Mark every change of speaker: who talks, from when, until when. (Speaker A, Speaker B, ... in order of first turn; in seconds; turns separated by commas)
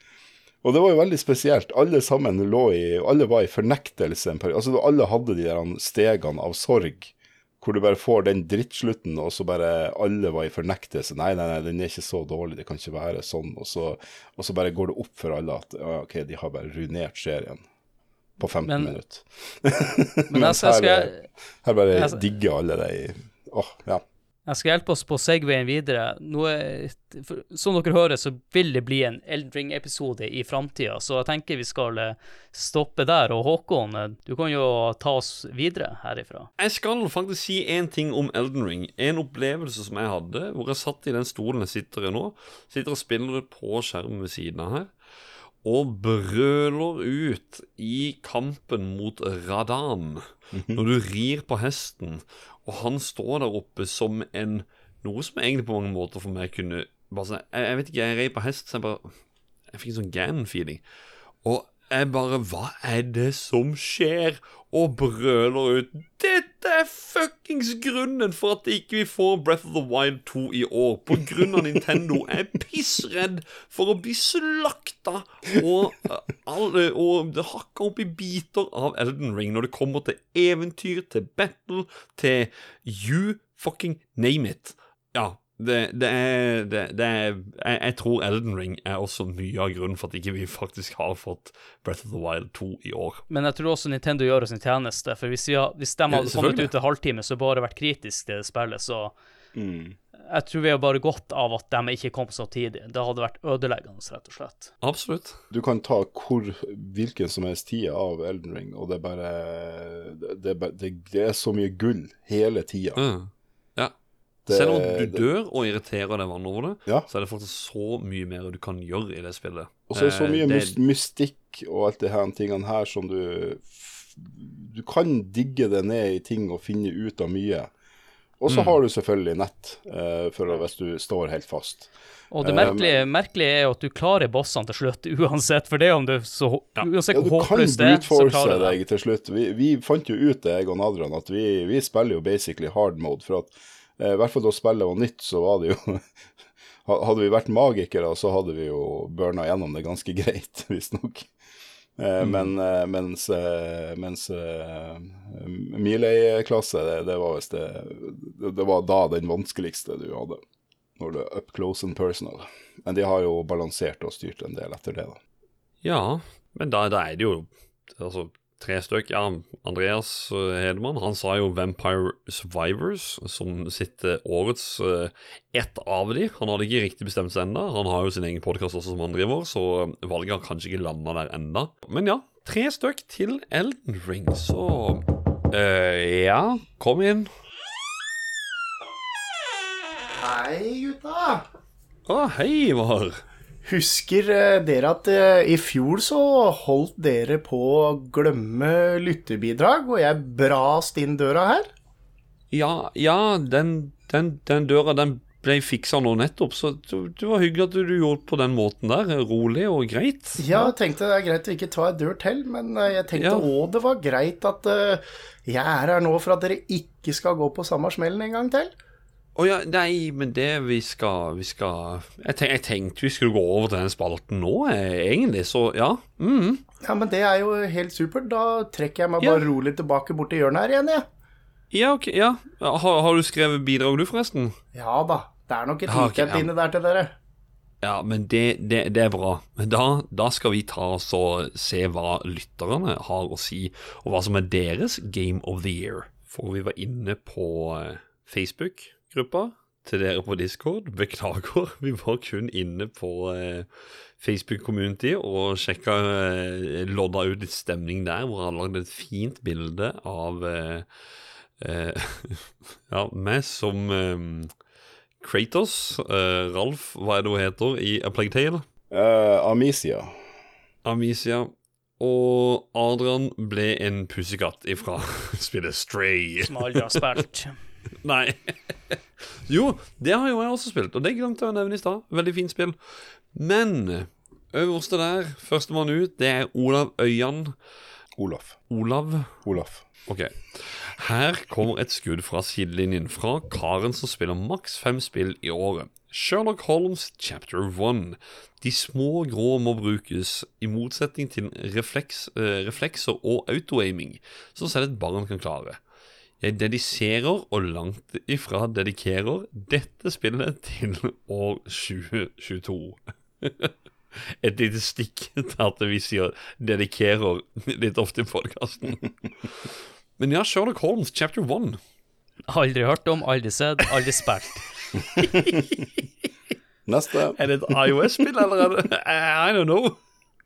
Speaker A: 0.6-17.6, Speaker A: 18.4-24.0, Speaker B: 18.6-18.9, Speaker B: 20.3-21.2, Speaker B: 21.9-22.2, Speaker B: 24.4-36.5, Speaker C: 36.6-44.9, Speaker C: 45.6-59.1, Speaker A: 50.5-50.8, Speaker C: 59.7-60.8, Speaker C: 61.4-93.2, Speaker B: 93.3-99.1, Speaker C: 96.1-96.7, Speaker A: 99.5-100.0, Speaker B: 100.3-104.7, Speaker C: 104.8-105.4, Speaker A: 105.5-113.0, Speaker C: 113.0-113.9, Speaker A: 114.5-115.2, Speaker C: 114.5-120.8, Speaker A: 119.9-127.7, Speaker A: 128.4-133.0, Speaker C: 128.5-128.8, Speaker B: 132.3-138.8, Speaker A: 137.1-146.0, Speaker A: 146.8-151.3, Speaker A: 152.0-160.4, Speaker C: 152.2-152.5, Speaker A: 161.0-165.2, Speaker C: 165.8-187.3, Speaker D: 190.2-191.4, Speaker C: 192.1-193.2, Speaker D: 193.6-201.7, Speaker C: 202.5-210.7, Speaker D: 210.4-218.7, Speaker C: 213.1-213.5, Speaker C: 219.3-226.6, Speaker D: 226.8-231.0, Speaker C: 229.2-229.5, Speaker C: 231.7-234.6, Speaker D: 234.7-237.1, Speaker C: 235.8-236.5, Speaker C: 237.8-253.7, Speaker C: 254.2-260.9, Speaker C: 261.6-264.5, Speaker C: 265.2-268.6, Speaker A: 268.9-270.1, Speaker C: 270.8-277.1, Speaker B: 276.4-277.6, Speaker C: 278.0-287.6, Speaker A: 288.2-288.6, Speaker C: 288.7-289.4, Speaker A: 289.4-289.8, Speaker C: 290.1-305.8, Speaker C: 306.4-313.7, Speaker C: 314.3-319.0, Speaker C: 320.2-321.8, Speaker B: 322.5-324.6, Speaker A: 326.9-327.4, Speaker C: 327.3-330.0